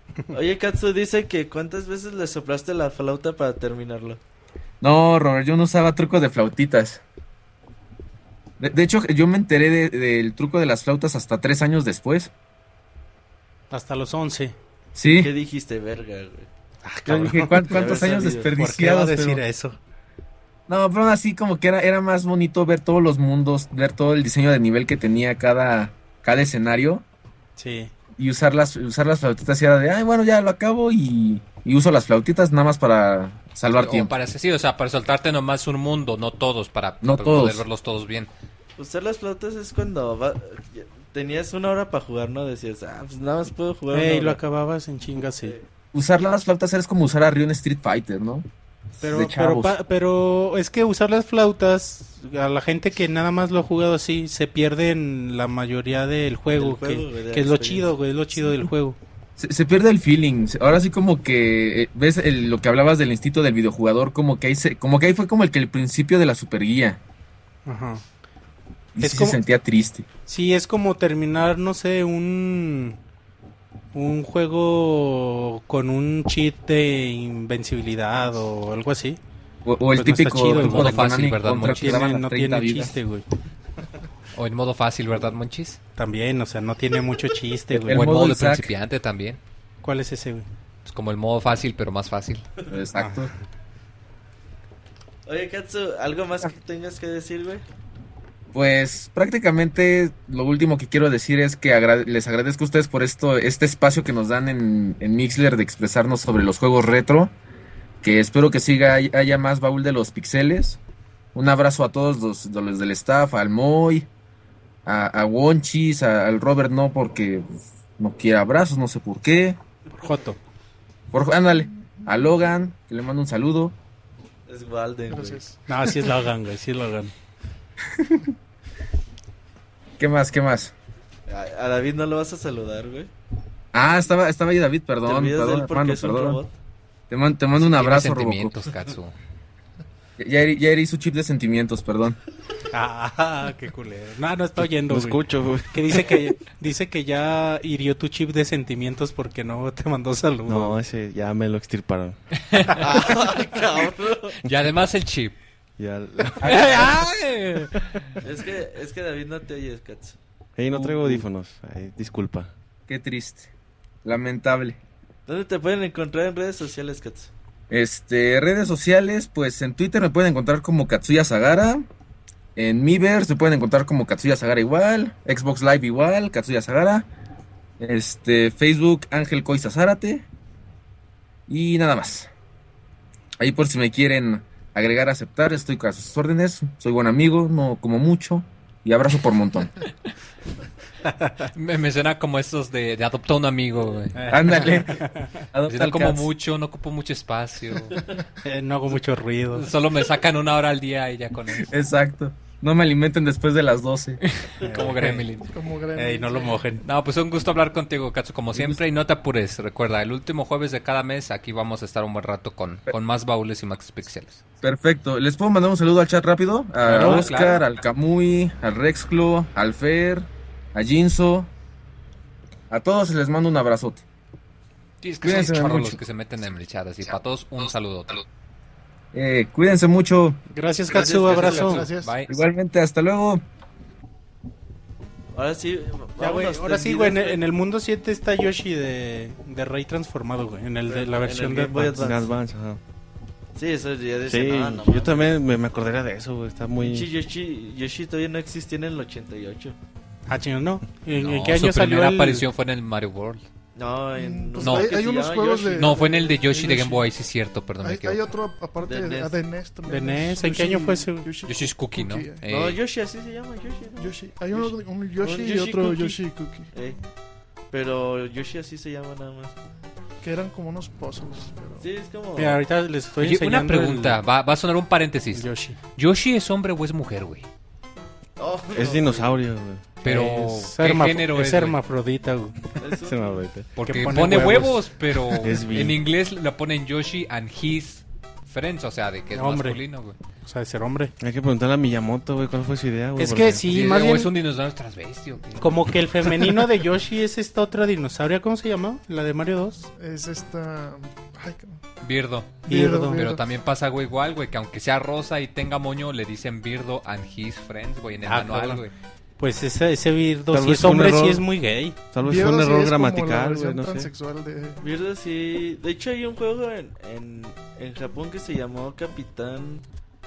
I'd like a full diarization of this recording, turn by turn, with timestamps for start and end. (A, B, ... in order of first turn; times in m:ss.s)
0:00.3-0:04.2 A
0:04.8-0:07.0 B
0:08.6-0:12.3 B
0:13.7-0:14.6 C
0:14.9-0:15.3 B
0:15.2-0:16.5 A
0:16.8-0:19.8 C
0:17.0-0:19.4 B
0:17.7-0:18.5 A
0:20.7-0:27.0 B
0:27.6-0:27.9 C
0:28.2-0:34.1 B
0:33.7-0:38.3 D
0:37.0-0:37.6 B
0:38.8-0:44.4 A
0:43.9-0:45.6 C
0:45.9-0:48.5 B
0:49.0-0:49.7 B
0:49.0-0:59.0 C
0:56.6-0:58.0 A
0:59.4-1:07.0 B
1:07.6-1:08.0 C
1:09.0-1:10.0 B
1:09.0-1:09.4 C
1:10.3-1:13.0 C
1:13.9-1:19.2 C
1:19.6-1:23.0 B
1:19.9-1:23.2 C
1:20.5-1:22.1 D
1:24.3-1:25.8 D
1:26.0-1:28.3 C
1:27.7-1:28.7 B
1:27.9-1:29.4 D
1:29.8-1:30.5 C
1:30.8-1:32.5 D
1:32.6-1:33.3 B
1:33.0-1:33.3 C
1:35.2-1:37.6 A
1:38.5-1:47.3 B
1:48.0-1:50.8 B
1:51.3-1:54.1 B
1:54.8-1:59.6 B
1:59.9-2:00.4 C
2:01.1-2:03.7 B
2:04.5-2:05.4 A
2:05.1-2:05.6 E
2:05.7-2:07.1 C
2:10.0-2:10.7 B
2:11.3-2:13.1 A
2:13.7-2:16.4 B
2:15.0-2:16.5 A
2:17.1-2:18.6 B
2:17.6-2:19.1 D
2:20.2-2:22.2 B
2:22.7-2:25.2 C
2:24.6-2:26.2 F
2:25.7-2:30.8 C
2:30.5-2:32.2 F
2:32.5-2:32.8 D
2:32.8-2:34.4 A
2:34.4-2:35.3 D
2:35.8-2:36.8 F
2:36.4-2:37.7 C
2:36.6-2:37.2 D
2:38.2-2:40.2 A
2:40.6-2:42.5 F
2:42.9-2:43.5 B
2:44.0-2:44.8 B
2:45.3-2:47.3 A
2:47.7-2:51.8 B
2:52.6-2:57.1 B
2:57.8-3:00.2 B
3:01.5-3:02.3 B
3:03.4-3:09.7 B
3:11.1-3:11.5 C
3:11.5-3:14.8 D
3:14.1-3:15.2 C
3:14.3-3:16.3 B
3:15.6-3:18.0 D
3:18.4-3:19.7 C
3:19.5-3:21.7 D
3:21.5-3:24.2 B
3:24.2-3:25.4 D
3:24.6-3:25.2 A
3:24.6-3:24.9 C
3:25.5-3:26.6 E
3:26.0-3:26.8 C
3:26.8-3:34.4 D
3:28.5-3:28.8 B
3:34.6-3:41.5 B
3:36.8-3:37.6 D
3:37.0-3:37.4 C
3:42.7-3:44.0 B
3:45.0-3:48.2 D
3:45.2-3:46.0 B
3:49.1-3:50.4 B
3:50.5-3:51.9 C
3:50.9-3:51.9 A
3:50.9-3:52.2 E
3:50.9-3:52.4 D
3:52.3-3:53.4 B
3:55.3-3:57.4 A
3:56.2-4:02.2 C
4:00.9-4:02.3 A
4:02.0-4:02.8 F
4:03.5-4:05.3 A
4:04.3-4:07.1 F
4:06.8-4:09.8 A
4:10.3-4:12.4 C
4:11.2-4:13.4 D
4:13.8-4:16.3 A
4:14.2-4:17.0 E
4:14.6-4:15.2 D
4:15.7-4:18.3 D
4:17.8-4:22.4 E
4:18.8-4:19.3 A
4:19.9-4:21.3 C
4:21.4-4:22.8 D
4:22.5-4:27.0 A
4:24.0-4:26.7 E
4:27.7-4:29.5 A
4:30.2-4:31.8 E
4:31.8-4:32.6 A
4:32.4-4:34.2 C
4:33.2-4:37.4 D
4:35.3-4:35.8 C
4:38.4-4:39.4 A
4:38.7-4:39.8 F
4:40.0-4:41.8 D
4:40.0-4:42.5 C
4:42.8-4:43.4 A
4:43.0-4:46.0 F
4:43.8-4:50.2 D
4:43.8-4:44.7 C
4:49.3-4:49.8 C
4:50.4-4:51.1 C
4:51.2-4:53.6 F
4:53.2-4:54.3 C
4:53.6-4:55.8 D
4:55.6-4:59.9 C
5:00.0-5:01.8 E
5:02.0-5:08.9 D
5:02.6-5:03.4 E
5:02.7-5:03.2 C
5:08.2-5:08.8 C
5:09.4-5:12.0 C
5:10.5-5:11.5 F
5:12.1-5:14.1 F
5:12.2-5:14.8 E
5:14.8-5:19.8 A